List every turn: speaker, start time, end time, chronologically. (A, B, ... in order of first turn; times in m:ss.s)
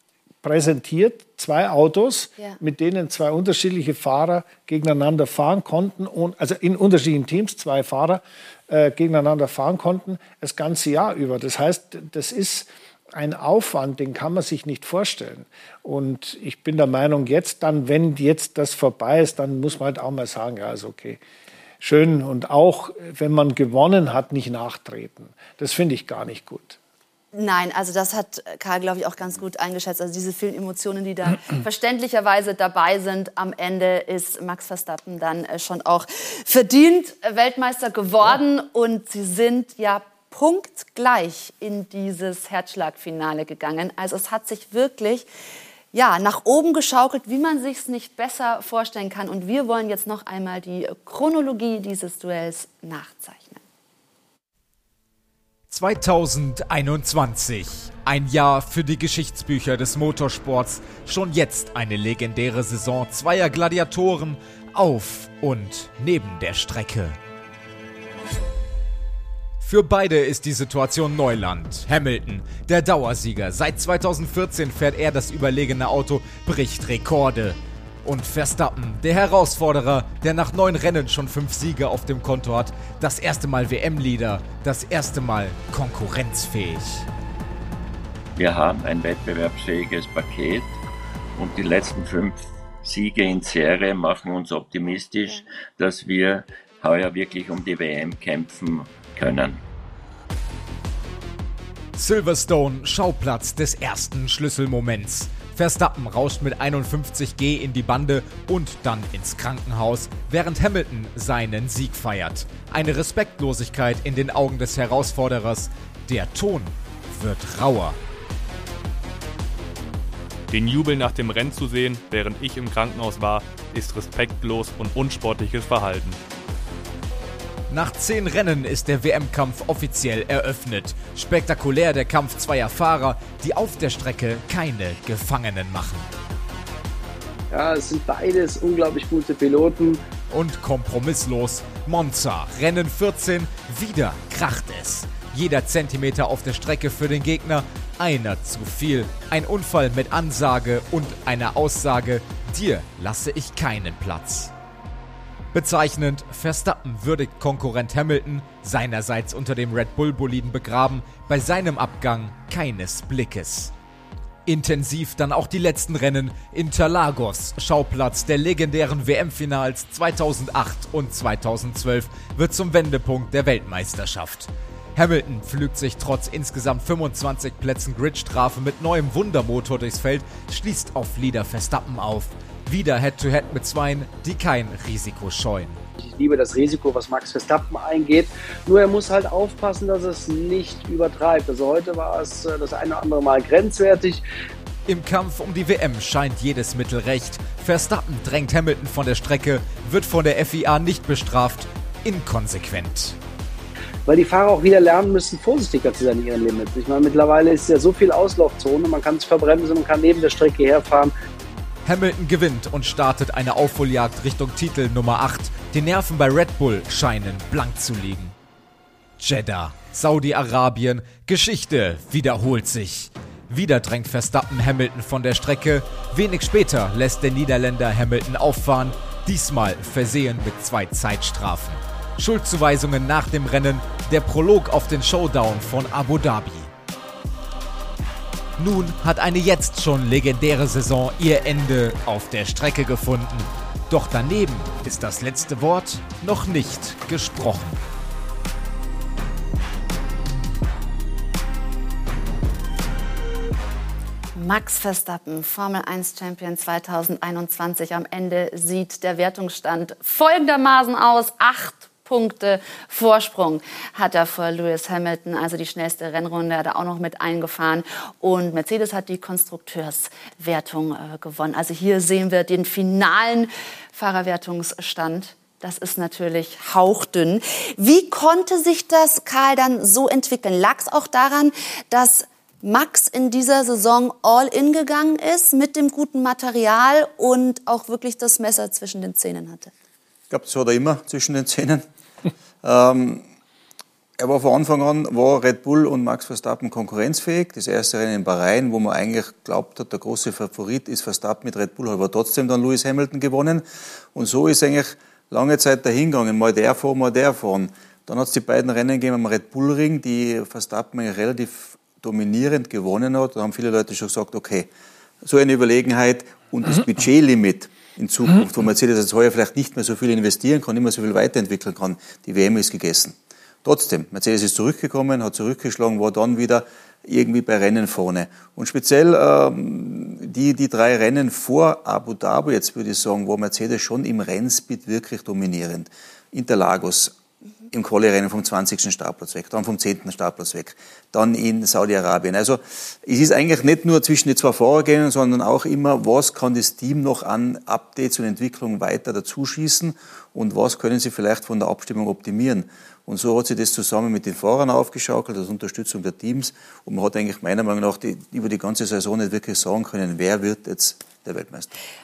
0:00.4-0:21.2 A
0:21.8-0:26.8 A
0:27.3-0:45.3 B
0:45.9-0:53.6 B
0:55.7-1:07.2 C
1:09.6-1:27.1 C
1:28.4-1:30.7 D
1:31.4-1:39.6 D
1:42.0-1:58.0 C
2:00.5-2:06.2 E
2:07.7-2:16.1 C
2:17.5-2:20.0 F
2:20.3-2:34.5 C
2:35.5-2:43.7 C
2:44.5-3:05.8 C
3:06.0-3:14.2 F
3:14.9-3:23.2 C
3:24.1-3:31.1 F
3:31.9-3:38.4 C
3:39.2-3:56.7 C
3:58.6-4:07.8 C
4:14.4-4:49.7 B
4:50.3-4:51.8 G
4:52.6-4:53.2 G
4:54.2-5:14.7 G
5:15.2-5:37.1 G
5:37.7-6:01.7 G